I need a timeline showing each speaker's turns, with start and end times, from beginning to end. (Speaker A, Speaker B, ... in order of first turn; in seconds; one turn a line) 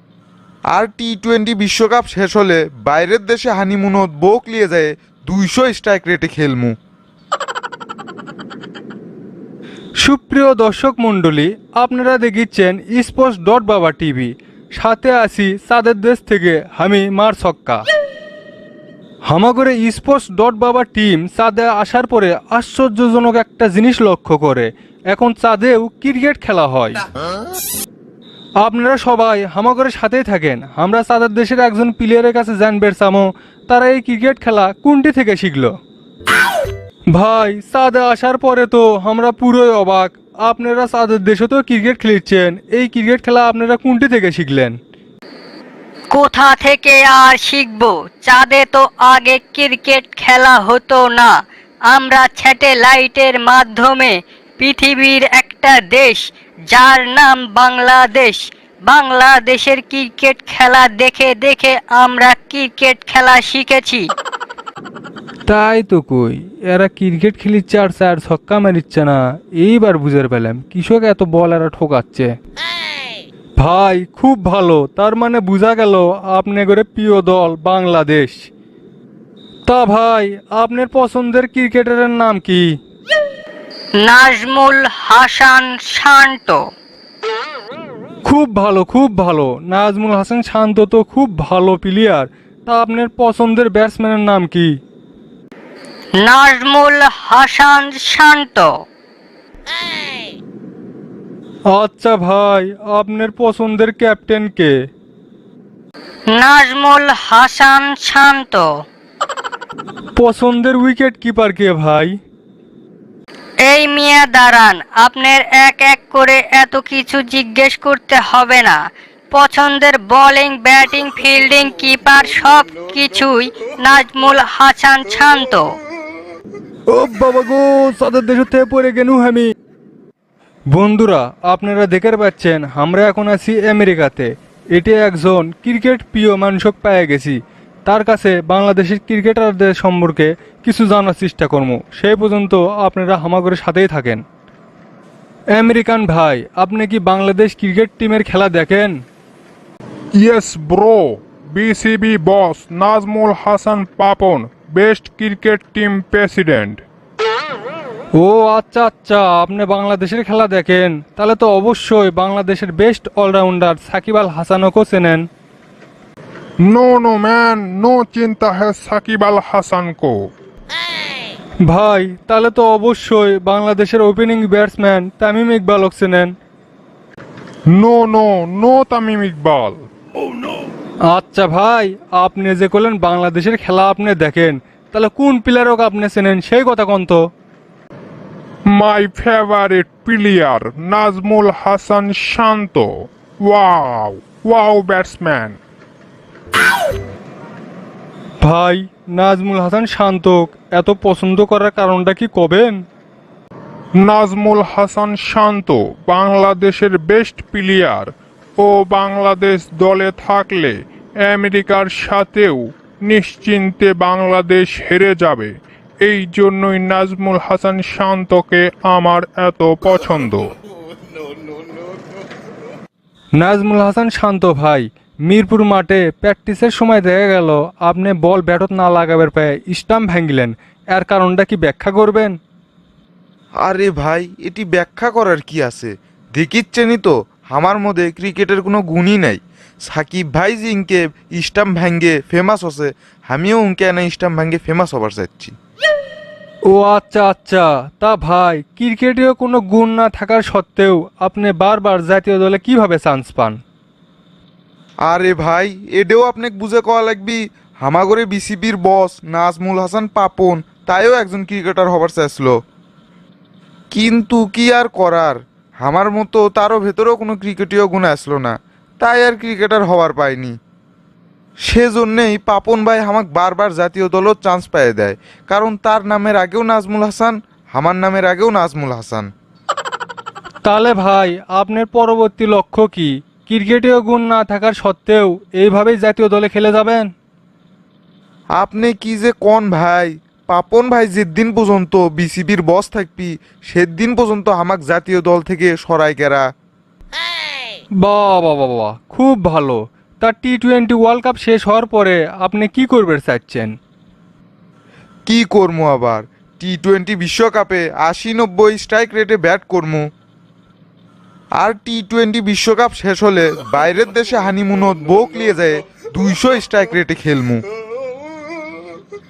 Speaker A: 0.7-6.8
Speaker B: 10.0-17.9
Speaker B: 19.3-27.0
Speaker B: 28.6-35.7
Speaker B: 37.1-44.8
Speaker C: 46.1-51.3
Speaker C: 51.9-64.1
Speaker B: 65.5-72.3
Speaker B: 73.6-78.5
Speaker B: 79.7-82.7
Speaker C: 84.0-86.6
Speaker B: 88.2-94.7
Speaker C: 96.2-98.7
Speaker B: 101.7-104.7
Speaker C: 106.3-108.7
Speaker B: 110.2-112.2
Speaker C: 113.7-118.8
Speaker C: 119.3-125.7
Speaker B: 126.9-129.5
Speaker B: 130.7-144.2
Speaker B: 145.6-148.9
Speaker D: 150.2-156.8
Speaker B: 158.2-165.3
Speaker D: 166.7-170.2
Speaker B: 171.7-176.3
Speaker D: 177.7-179.9
Speaker B: 181.1-187.2
Speaker D: 188.7-192.9
Speaker D: 193.4-195.6
Speaker B: 198.4-202.8
Speaker D: 204.1-215.5
Speaker D: 216.1-220.5
Speaker B: 223.4-232.4
Speaker A: 233.6-245.5
Speaker B: 246.7-253.6
Speaker A: 255.1-262.6
Speaker A: 263.9-270.5
Speaker A: 271.7-279.3
Speaker B: 280.6-287.1
Speaker A: 288.6-296.4
Speaker B: 298.0-303.7
Speaker A: 305.3-310.1
Speaker A: 311.6-317.6